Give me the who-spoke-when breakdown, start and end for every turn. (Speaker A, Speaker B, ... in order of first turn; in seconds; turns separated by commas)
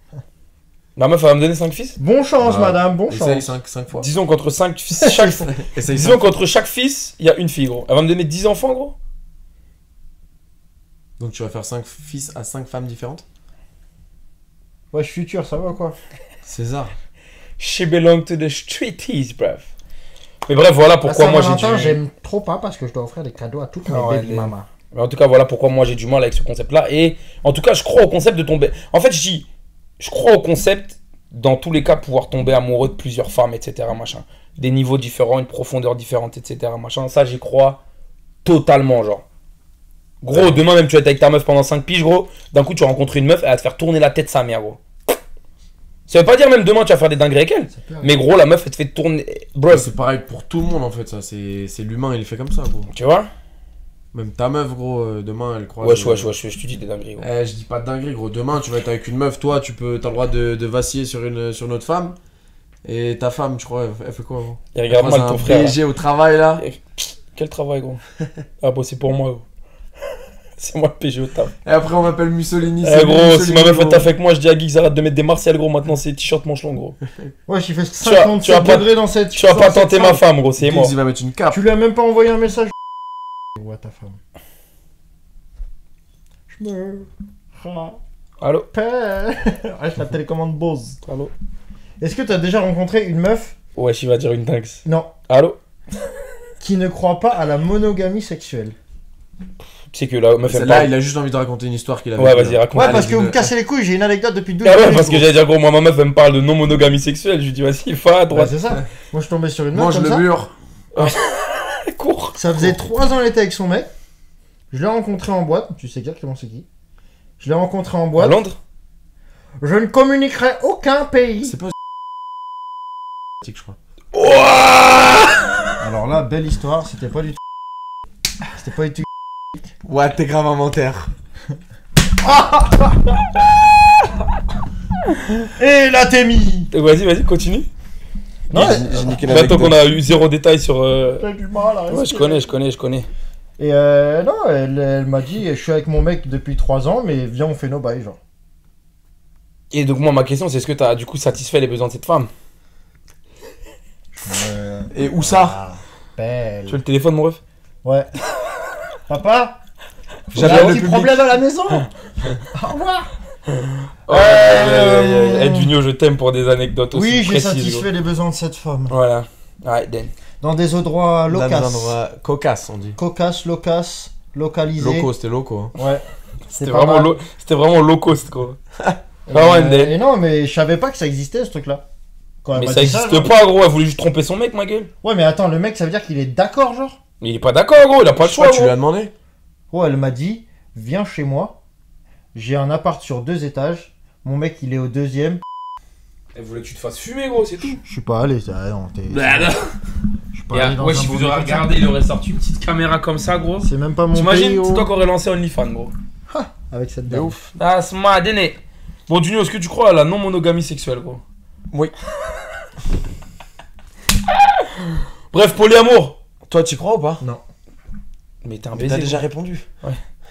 Speaker A: 0.9-2.0, Speaker B: 2.0-3.5, Speaker C: 2.4-4.1, Speaker A: 3.9-8.9, Speaker B: 5.0-5.4, Speaker C: 5.6-6.2, Speaker C: 11.2-13.2, Speaker B: 14.9-15.9, Speaker C: 16.4-16.9, Speaker A: 17.6-19.7, Speaker A: 20.4-22.0, Speaker B: 21.0-24.7, Speaker A: 23.9-29.4, Speaker A: 30.0-37.8, Speaker A: 38.4-39.2, Speaker A: 40.2-44.8, Speaker C: 40.3-40.6, Speaker A: 46.1-49.9, Speaker B: 47.7-48.2, Speaker C: 49.7-52.9, Speaker A: 52.9-53.3, Speaker C: 54.1-56.3, Speaker A: 55.8-57.2, Speaker C: 57.2-62.1, Speaker C: 62.8-66.6, Speaker A: 64.7-65.8, Speaker A: 66.6-68.0, Speaker A: 68.6-69.4, Speaker A: 70.6-71.5, Speaker C: 71.6-74.1, Speaker A: 72.8-77.0, Speaker B: 77.5-80.2, Speaker A: 78.0-80.9, Speaker C: 80.6-81.6, Speaker B: 81.5-82.7, Speaker B: 83.5-84.2, Speaker B: 86.5-88.0, Speaker A: 88.4-88.7, Speaker B: 88.7-91.0, Speaker A: 91.0-91.3, Speaker B: 92.0-93.5, Speaker A: 93.8-95.6, Speaker B: 94.8-95.1, Speaker B: 96.6-98.8, Speaker A: 99.9-100.9, Speaker C: 100.5-103.5, Speaker A: 102.2-103.0, Speaker B: 102.7-105.3, Speaker A: 104.6-108.5, Speaker B: 108.3-110.3, Speaker C: 109.7-111.1, Speaker A: 110.9-112.4, Speaker B: 112.3-113.9, Speaker B: 114.7-116.7, Speaker B: 117.4-118.4, Speaker A: 118.2-118.6, Speaker B: 119.6-121.6, Speaker C: 121.5-121.7, Speaker C: 123.4-123.8, Speaker A: 124.1-125.3, Speaker B: 125.8-127.4, Speaker B: 128.5-129.1, Speaker C: 129.8-131.1, Speaker B: 132.2-133.3, Speaker B: 135.5-136.7, Speaker A: 136.7-137.7, Speaker B: 138.5-139.0, Speaker C: 138.5-139.9, Speaker A: 138.5-141.2, Speaker B: 141.2-142.5, Speaker A: 141.9-143.1, Speaker B: 143.6-148.2, Speaker A: 149.7-152.3, Speaker B: 154.1-156.8, Speaker C: 154.9-155.6, Speaker A: 156.7-157.4, Speaker B: 157.8-158.1, Speaker B: 159.1-159.6, Speaker A: 160.3-160.8, Speaker C: 160.3-161.4, Speaker B: 160.3-161.9, Speaker B: 162.5-163.1, Speaker A: 164.1-167.9, Speaker B: 164.1-165.7, Speaker B: 166.9-168.9, Speaker A: 168.9-170.1, Speaker B: 170.4-172.0, Speaker C: 171.3-173.0, Speaker B: 172.9-175.1, Speaker C: 174.8-175.7, Speaker B: 175.8-177.2, Speaker A: 176.5-178.6, Speaker B: 179.3-181.8, Speaker A: 179.3-179.9, Speaker B: 182.4-183.4, Speaker A: 182.6-184.9, Speaker B: 185.0-187.0, Speaker A: 187.2-188.7, Speaker C: 188.2-189.1, Speaker B: 189.7-191.6, Speaker B: 192.3-195.4, Speaker A: 196.3-197.8, Speaker B: 197.7-199.6, Speaker A: 199.1-199.7, Speaker B: 200.3-201.8, Speaker A: 200.5-205.9, Speaker B: 203.6-204.9, Speaker B: 206.3-207.4, Speaker C: 207.1-207.5, Speaker A: 207.5-211.2, Speaker A: 215.3-216.2, Speaker C: 216.5-217.2, Speaker A: 218.4-219.2, Speaker C: 218.7-219.7